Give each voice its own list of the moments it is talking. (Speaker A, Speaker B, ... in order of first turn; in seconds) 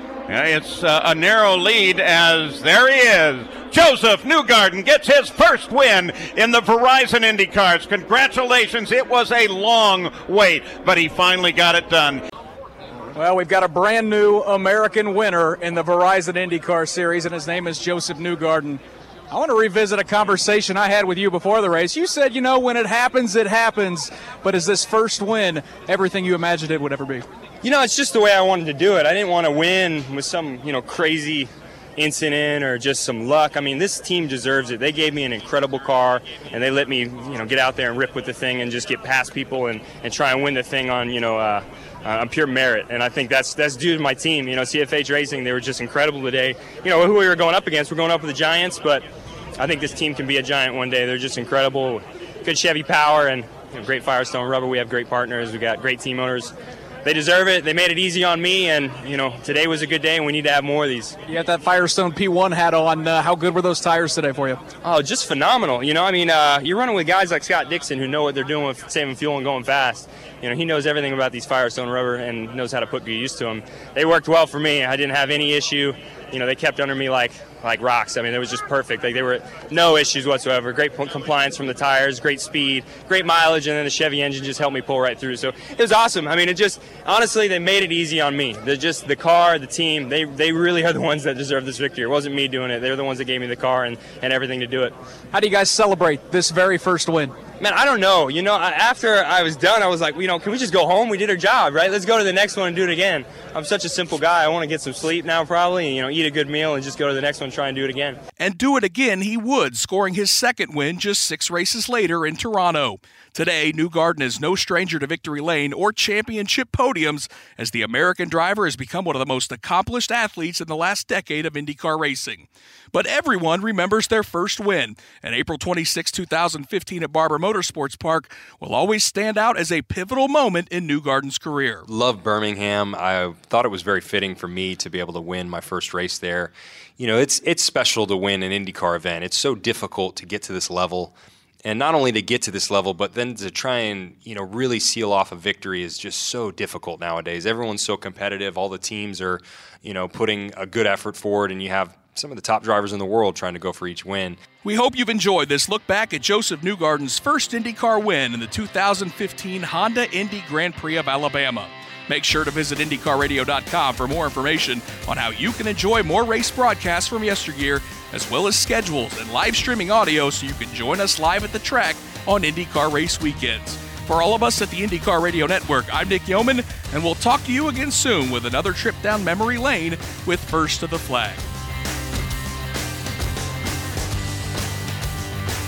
Speaker A: 0.3-12.2
Speaker B: 13.2-27.2, 61.3-64.6, 95.3-97.3
Speaker C: 27.6-49.0, 49.6-56.5, 57.0-61.2, 64.8-94.9, 97.6-108.2
Speaker D: 108.4-122.4, 122.9-131.7, 154.7-181.3
Speaker E: 131.9-154.4